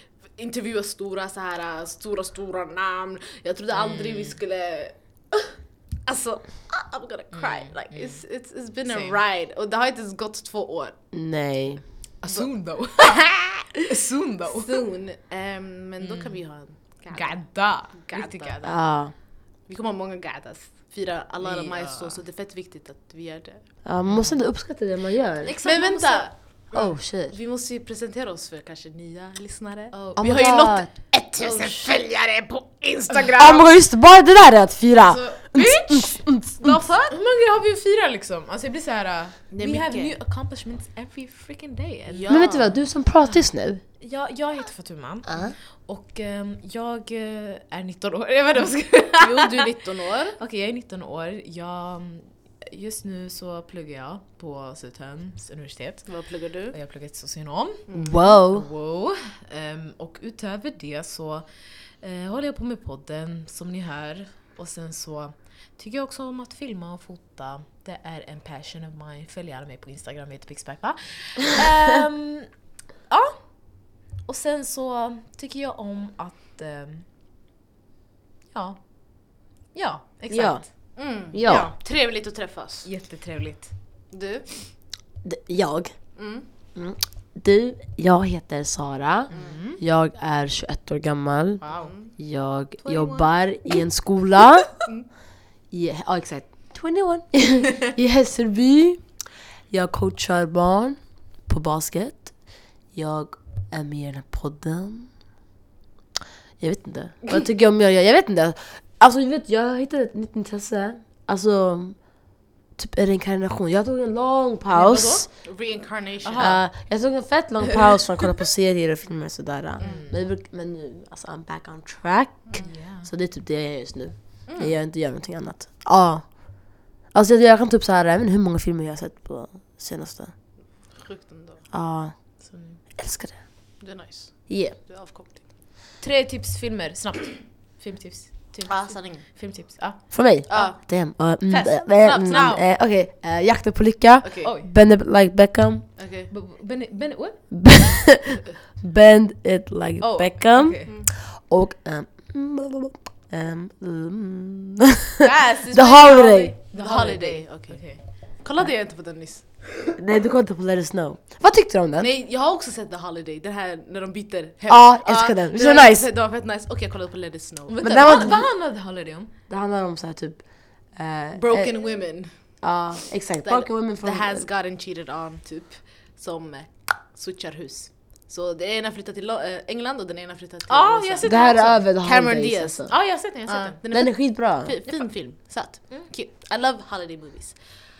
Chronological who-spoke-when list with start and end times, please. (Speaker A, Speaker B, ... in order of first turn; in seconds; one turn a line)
Speaker A: 0.2-5.5
Speaker B: 3.7-4.4
Speaker A: 6.0-10.9
Speaker B: 7.3-8.2
Speaker B: 8.8-9.2
Speaker C: 11.1-11.8
Speaker B: 12.2-13.2
Speaker A: 13.2-13.4
Speaker B: 13.8-14.8
Speaker A: 14.5-18.7
Speaker B: 16.0-16.4
Speaker B: 17.1-18.7
Speaker C: 18.6-19.1
Speaker A: 19.7-23.7
Speaker B: 21.4-22.2
Speaker C: 23.8-25.5
Speaker B: 24.1-24.3
Speaker B: 25.4-26.3
Speaker A: 25.5-33.7
Speaker C: 26.7-27.4
Speaker B: 29.9-30.3
Speaker C: 30.2-30.9
Speaker B: 31.4-31.8
Speaker C: 33.3-36.8
Speaker B: 35.3-42.4
Speaker A: 39.5-40.1
Speaker A: 42.1-42.8
Speaker C: 42.3-43.8
Speaker B: 44.0-56.1
Speaker C: 45.2-45.5
Speaker A: 49.2-50.4
Speaker A: 56.0-56.8
Speaker B: 56.7-61.5
Speaker A: 57.9-58.2
Speaker C: 58.0-58.7
Speaker B: 62.0-72.5
Speaker B: 73.1-77.0
Speaker B: 78.5-80.7
Speaker C: 80.3-81.7
Speaker A: 80.9-82.9
Speaker B: 82.8-83.7
Speaker A: 84.1-84.7
Speaker C: 85.2-86.1
Speaker A: 86.2-86.4
Speaker C: 86.7-94.7
Speaker B: 89.3-89.8
Speaker A: 89.3-89.6
Speaker B: 91.6-91.9
Speaker A: 91.6-92.1
Speaker A: 92.8-93.2
Speaker C: 95.7-99.1
Speaker C: 99.7-102.3
Speaker C: 102.9-105.1
Speaker C: 106.6-112.0
Speaker C: 112.8-115.3
Speaker A: 114.7-116.6
Speaker B: 116.2-116.6
Speaker C: 116.4-130.3
Speaker B: 119.8-120.2
Speaker A: 119.8-120.0
Speaker B: 122.6-123.1
Speaker A: 124.5-124.8
Speaker A: 130.9-131.6
Speaker C: 131.7-133.4
Speaker B: 132.4-132.8
Speaker A: 133.8-135.5
Speaker C: 134.5-134.8
Speaker B: 136.0-140.0
Speaker A: 138.7-139.8
Speaker C: 140.1-145.8
Speaker A: 140.5-142.7
Speaker A: 144.2-144.5
Speaker B: 144.4-144.7
Speaker A: 146.0-146.3
Speaker B: 146.3-147.5
Speaker C: 147.5-156.5
Speaker B: 150.0-150.9
Speaker B: 155.2-158.0
Speaker A: 156.7-159.5
Speaker C: 159.9-162.1
Speaker A: 162.0-168.4
Speaker C: 164.7-166.1
Speaker B: 167.7-169.3
Speaker C: 167.8-168.5
Speaker C: 169.5-171.8
Speaker A: 171.3-172.3
Speaker C: 172.6-174.5
Speaker A: 173.4-182.9
Speaker B: 180.7-181.8
Speaker C: 181.2-182.9
Speaker B: 182.9-183.8
Speaker A: 183.4-187.6
Speaker C: 183.9-184.7